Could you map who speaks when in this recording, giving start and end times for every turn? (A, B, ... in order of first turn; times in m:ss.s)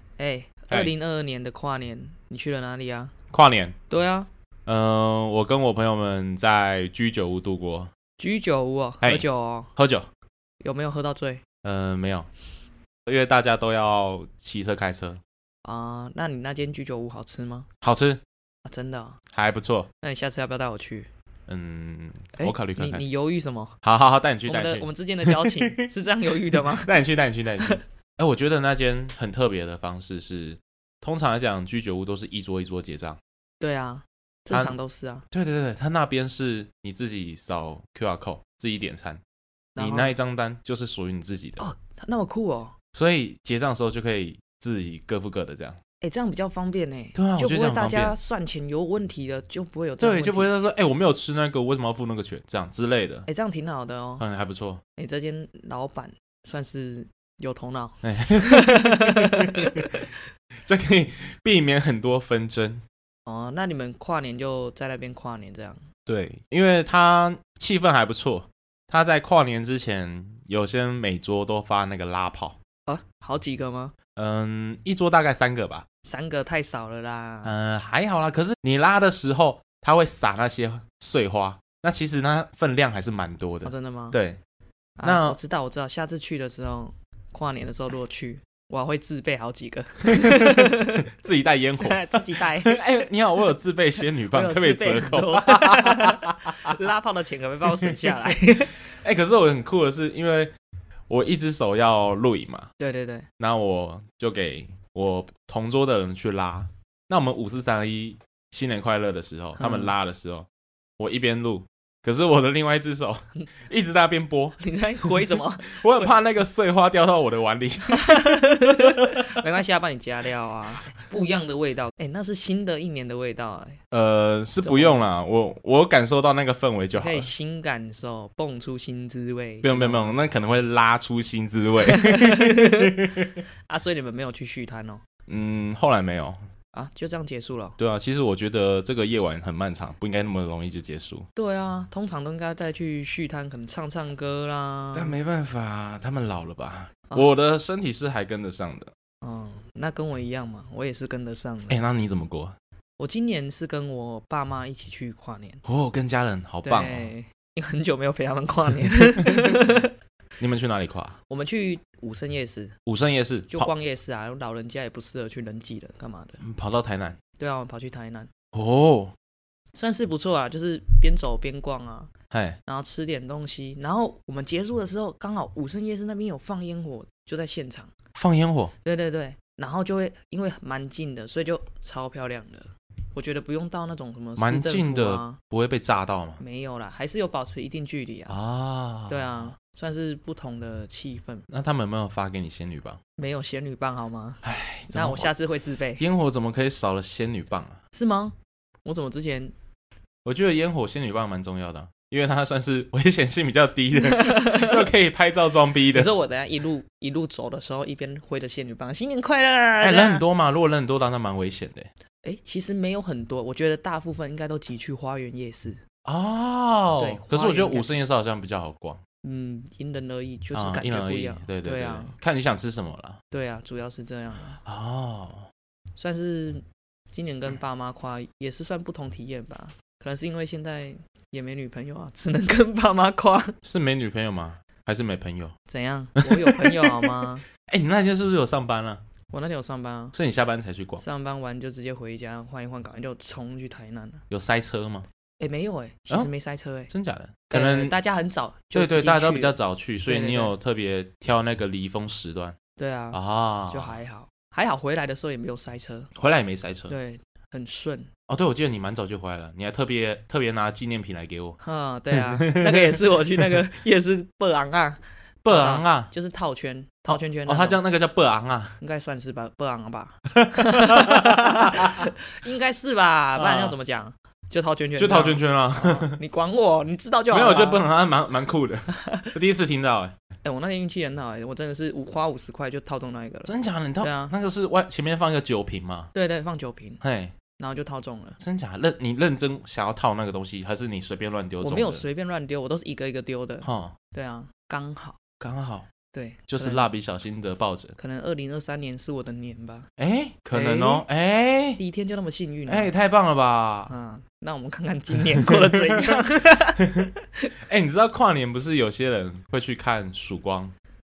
0:00.2-0:03.1 A
0:03.3-0:03.8 B
0:03.9-0:04.3 A
0:04.6-0:07.9 B
0:08.2-0:09.7 A
0:09.0-0:10.1 B
0:10.6-0:11.4 A
0:11.6-0:12.3 B
0:13.0-0:15.2 B
0:15.6-0:17.7 A
0:17.8-0:18.2 B
0:18.6-0:19.2 A
0:19.3-0:19.9 B
0:20.0-0:21.1 A
0:21.5-0:23.0 B
0:22.4-0:23.8 A
0:23.8-0:25.8 B
0:24.4-0:26.9 A
0:26.5-0:33.2 B
0:33.6-0:35.2 A
0:34.5-0:34.8 B
0:35.3-0:39.2 B
0:39.7-0:40.1 A
0:39.8-0:41.6 B
0:41.6-0:42.7 A
0:42.9-0:45.8 B
0:46.0-0:50.5 A
0:47.1-0:48.1 B
0:50.0-0:53.3 B
0:53.3-0:54.2 A
0:54.2-0:54.8 B
0:55.0-0:59.9 A
0:58.0-1:00.1 B
1:00.6-1:02.8 B
1:03.2-1:05.8 A
1:06.1-1:12.6 B
1:12.8-1:13.9 A
1:14.2-1:15.9 B
1:16.0-1:17.5 A
1:17.4-1:24.4 B
1:23.6-1:24.2 A
1:25.0-1:31.1 A
1:25.0-1:25.4 B
1:30.1-1:36.8 B
1:31.8-1:32.8 A
1:34.3-1:38.7 A
1:37.8-1:38.1 B
1:39.0-1:40.5 B
1:41.1-1:42.7 B
1:42.8-1:43.3 A
1:43.4-1:50.5 B
1:49.6-1:49.9 A
1:51.0-1:59.2 B
1:54.6-1:56.1 A
1:57.9-2:03.8 A
2:03.9-2:07.3 B
2:04.6-2:05.0 A
2:07.0-2:10.2 A
2:09.6-2:13.4 B
2:11.8-2:13.0 A
2:13.7-2:15.0 A
2:15.3-2:16.4 B
2:16.7-2:17.8 A
2:17.8-2:21.2 B
2:21.3-2:25.1 A
2:24.9-2:28.9 B
2:29.2-2:31.8 A
2:31.7-2:32.6 B
2:33.0-2:35.6 A
2:35.6-2:37.1 B
2:36.6-2:39.9 A
2:39.2-2:39.6 B
2:40.4-2:41.2 B
2:41.3-2:42.8 A
2:42.8-2:43.7 B
2:43.5-2:46.4 A
2:46.4-2:47.2 B
2:47.4-2:48.3 A
2:48.5-2:49.1 B
2:49.7-2:52.1 A
2:52.3-2:52.6 B
2:52.6-2:57.9 A
2:58.1-2:58.7 B
2:58.8-3:05.4 A
3:04.4-3:06.4 B
3:06.4-3:08.4 A
3:08.3-3:09.5 B
3:09.1-3:11.5 A
3:11.5-3:13.0 B
3:13.2-3:16.0 A
3:14.4-3:15.3 B
3:16.0-3:17.8 B
3:17.9-3:19.5 A
3:20.2-3:26.1 B
3:24.0-3:24.8 A
3:25.9-3:30.2 A
3:29.8-3:31.9 B
3:32.2-3:35.8 A
3:36.0-3:39.0 B
3:37.0-3:37.9 A
3:39.2-3:42.1 A
3:40.5-3:43.2 B
3:43.3-3:44.6 A
3:44.6-3:45.5 B
3:46.0-3:53.6 A
3:53.6-3:55.6 B
3:55.7-3:57.4 A
3:56.2-3:59.0 B
3:59.3-4:00.1 A
4:00.1-4:01.0 B
4:01.0-4:04.2 A
4:04.3-4:05.1 B
4:05.4-4:06.9 A
4:06.9-4:07.9 B
4:07.5-4:09.6 A
4:08.7-4:12.6 B
4:10.1-4:10.5 A
4:12.8-4:13.2 A
4:13.1-4:14.0 B
4:13.7-4:16.1 A
4:16.1-4:16.9 B
4:16.9-4:18.1 A
4:18.3-4:21.6 B
4:21.6-4:27.8 A
4:22.1-4:23.5 B
4:25.4-4:26.1 B
4:27.1-4:28.7 B
4:28.8-4:37.8 A
4:30.3-4:32.1 B
4:33.4-4:33.8 B
4:35.0-4:36.2 B
4:37.3-4:40.1 B
4:38.9-4:39.3 A
4:40.4-4:44.3 A
4:43.4-4:46.1 B
4:46.1-4:47.0 A
4:47.0-4:47.3 B
4:47.6-4:48.4 A
4:48.4-4:52.0 B
4:51.6-4:55.2 A
4:53.6-4:54.0 B
4:55.4-4:55.9 B
4:56.1-4:56.9 A
4:56.5-4:58.0 B
4:58.0-4:59.9 A
5:00.0-5:01.8 B
5:00.5-5:01.0 A
5:01.8-5:02.9 A
5:02.7-5:03.9 B
5:03.9-5:07.5 A
5:05.4-5:06.2 B
5:06.8-5:07.1 B
5:07.6-5:10.7 B